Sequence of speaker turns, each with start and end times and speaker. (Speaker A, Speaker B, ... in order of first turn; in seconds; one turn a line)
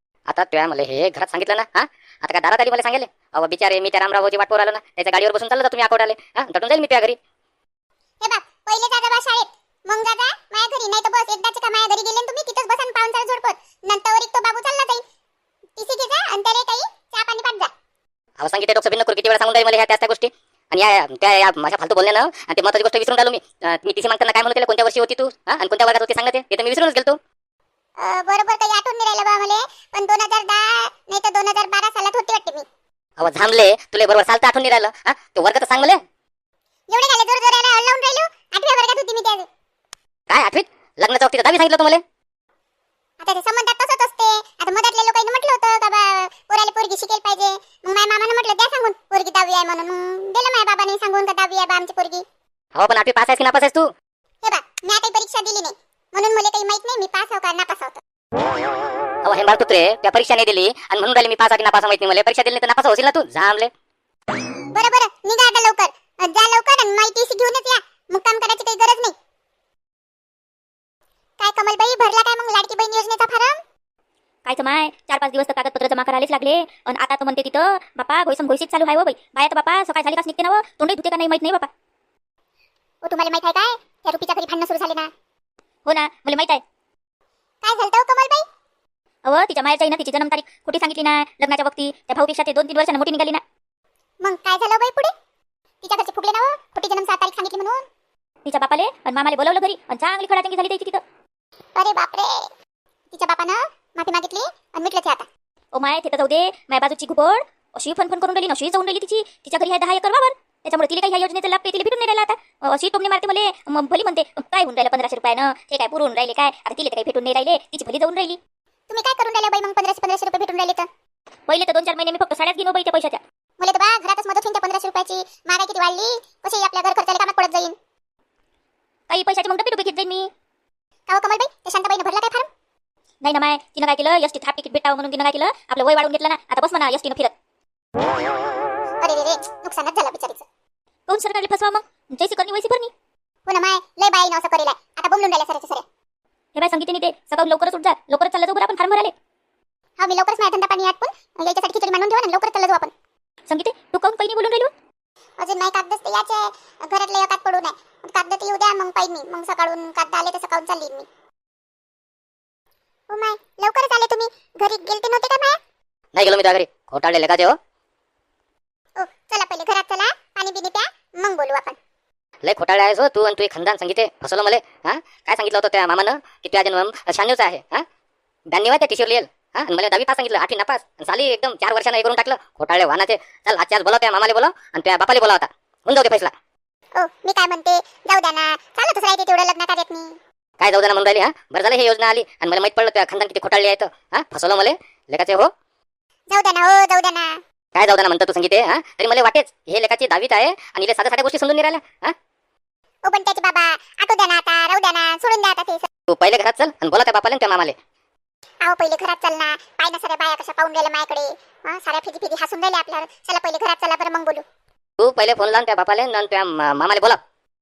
Speaker A: 0.3-7.2
Speaker B: 8.2-15.0
Speaker B: 15.8-17.7
Speaker A: 18.4-27.2
Speaker B: 28.0-32.6
Speaker A: 33.2-36.0
Speaker B: 36.9-39.5
Speaker A: 40.3-42.0
Speaker B: 43.2-52.2
Speaker A: 52.8-53.9
Speaker B: 54.4-58.0
Speaker A: 59.2-63.7
Speaker B: 64.7-69.1
Speaker B: 71.4-73.6
Speaker C: 74.4-81.7
Speaker B: 83.0-85.1
Speaker C: 85.8-86.6
Speaker B: 87.6-88.5
Speaker C: 89.2-93.4
Speaker B: 94.2-95.1
Speaker B: 95.8-97.8
Speaker C: 98.4-101.0
Speaker B: 101.8-102.5
Speaker B: 103.1-105.3
Speaker C: 105.7-118.4
Speaker B: 118.9-120.9
Speaker C: 121.5-123.2
Speaker B: 123.6-127.8
Speaker C: 129.1-130.3
Speaker B: 131.1-132.5
Speaker C: 133.2-137.3
Speaker B: 139.0-140.4
Speaker C: 141.1-142.9
Speaker B: 143.5-145.8
Speaker C: 146.5-149.1
Speaker B: 150.0-152.9
Speaker C: 153.5-154.7
Speaker B: 155.4-161.1
Speaker B: 163.1-165.6
Speaker A: 166.1-167.6
Speaker B: 169.0-171.8
Speaker A: 172.4-177.8
Speaker A: 178.5-186.3
Speaker B: 187.0-190.2
Speaker A: 190.6-195.5
Speaker B: 196.3-197.4
Speaker A: 197.7-202.1
Speaker B: 203.1-205.9
Speaker A: 206.1-207.8
Speaker B: 208.6-214.4
Speaker A: 215.0-217.2